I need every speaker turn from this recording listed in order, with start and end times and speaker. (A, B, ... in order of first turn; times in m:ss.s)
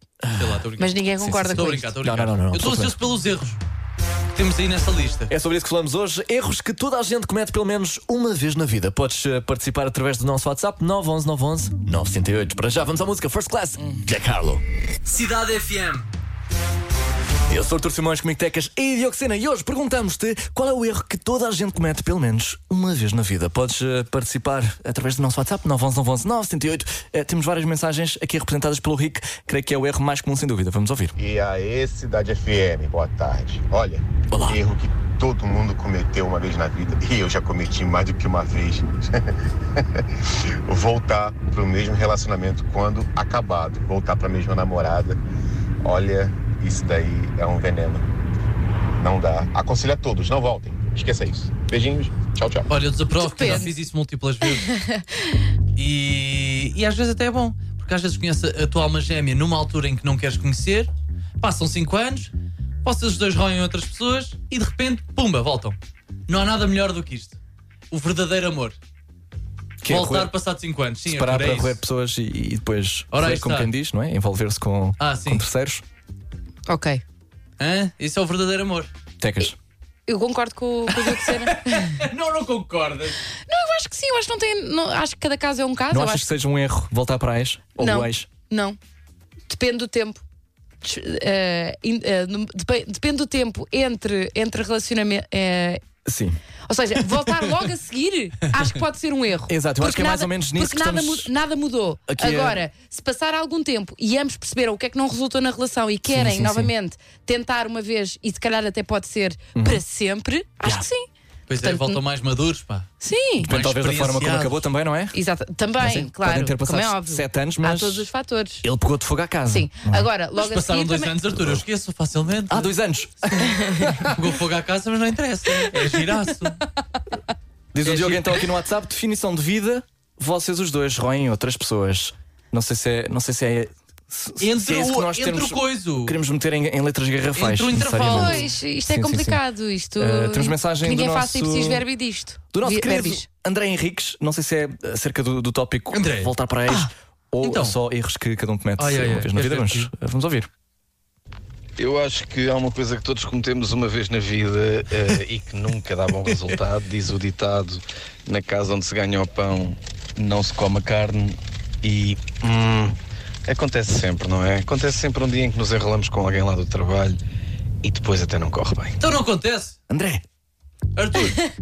0:00.2-0:00.7 A
0:00.4-0:01.0 B
0:00.8-0:01.9 C
0:01.2-0:03.0 A
0:01.5-0:03.6 B
0:04.3-0:05.3 B
0:05.3-0:14.6 A
0:15.0-0:16.1 B
0:17.5-0:31.2 A
0:31.2-0:40.0 D
0:34.3-0:34.6 A
0:40.7-0:45.2 D
0:45.8-0:48.1 D
0:49.0-0:52.7 D
0:52.7-0:54.7 B
0:53.2-0:53.7 C
0:54.6-0:55.4 C
0:55.8-1:02.3 B
1:02.8-1:05.8 B
1:06.3-1:07.4 B
1:07.9-1:08.8 B
1:09.8-1:10.3 A
1:09.9-1:11.8 B
1:11.0-1:15.8 A
1:13.1-1:13.7 B
1:15.0-1:15.4 B
1:16.7-1:17.0 C
1:17.6-1:18.9 B
1:19.2-1:19.6 A
1:20.1-1:22.0 C
1:20.9-1:23.2 B
1:23.5-1:26.3 C
1:25.9-1:28.3 A
1:27.8-1:28.8 C
1:29.5-1:30.2 C
1:30.8-1:35.8 C
1:36.0-1:36.4 A
1:36.7-1:52.0 C
1:39.5-1:41.3 A
1:42.1-1:42.6 A
1:46.1-1:46.7 A
1:49.6-1:49.8 A
1:51.5-1:52.9 B
1:53.0-1:53.5 C
1:53.4-1:54.6 B
1:53.4-1:55.2 A
1:55.1-1:58.6 C
1:55.8-1:58.1 A
1:58.6-2:00.1 A
1:59.5-2:01.2 C
2:00.4-2:02.7 B
2:01.4-2:01.6 A
2:02.5-2:04.2 A
2:03.4-2:03.9 C
2:04.1-2:06.6 B
2:07.7-2:19.4 A
2:07.8-2:08.4 B
2:14.4-2:16.2 B
2:17.4-2:18.5 B
2:18.0-2:23.3 C
2:20.0-2:21.8 A
2:22.5-2:30.5 A
2:25.9-2:26.3 B
2:27.4-2:27.8 B
2:28.8-2:29.9 B
2:31.8-2:43.0 E
2:43.5-2:47.2 E
2:47.8-2:49.0 E
2:49.0-2:49.8 B
2:49.9-2:50.2 A
2:51.0-2:51.4 B